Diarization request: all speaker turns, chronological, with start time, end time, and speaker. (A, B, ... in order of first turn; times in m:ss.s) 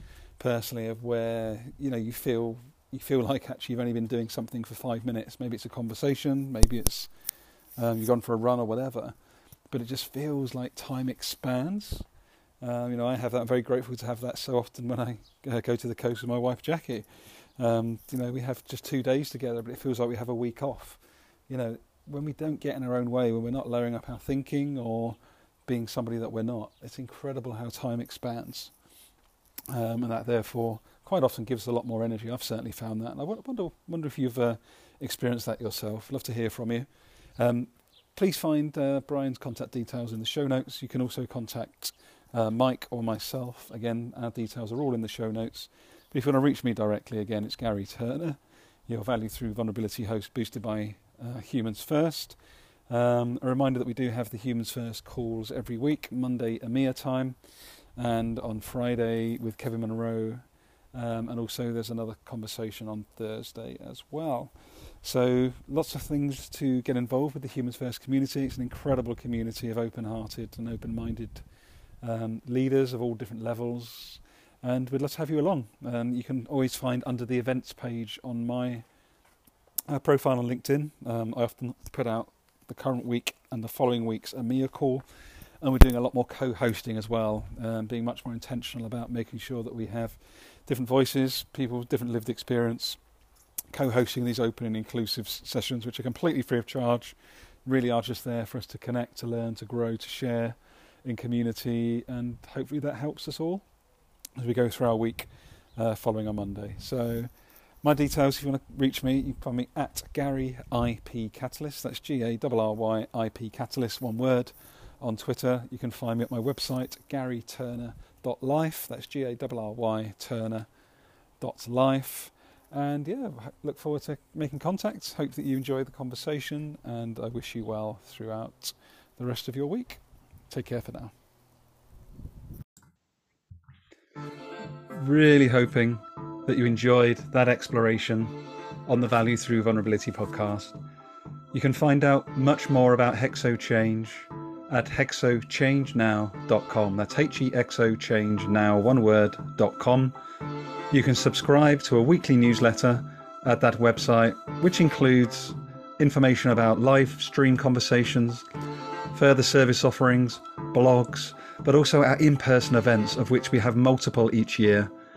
0:00.4-0:07.1 A
0:07.8-0:09.2 A
0:09.7-0:12.0 A
0:12.6-0:28.7 A
0:29.7-1:11.5 A
1:12.0-1:18.8 A
1:19.9-1:25.0 A
1:25.6-1:33.0 A
1:33.7-1:43.6 A
1:44.4-2:00.7 A
2:01.4-2:11.1 A
2:14.9-2:18.4 A
2:18.9-2:20.7 A
2:21.5-2:30.2 A
2:30.9-2:38.4 A
2:39.1-2:44.9 A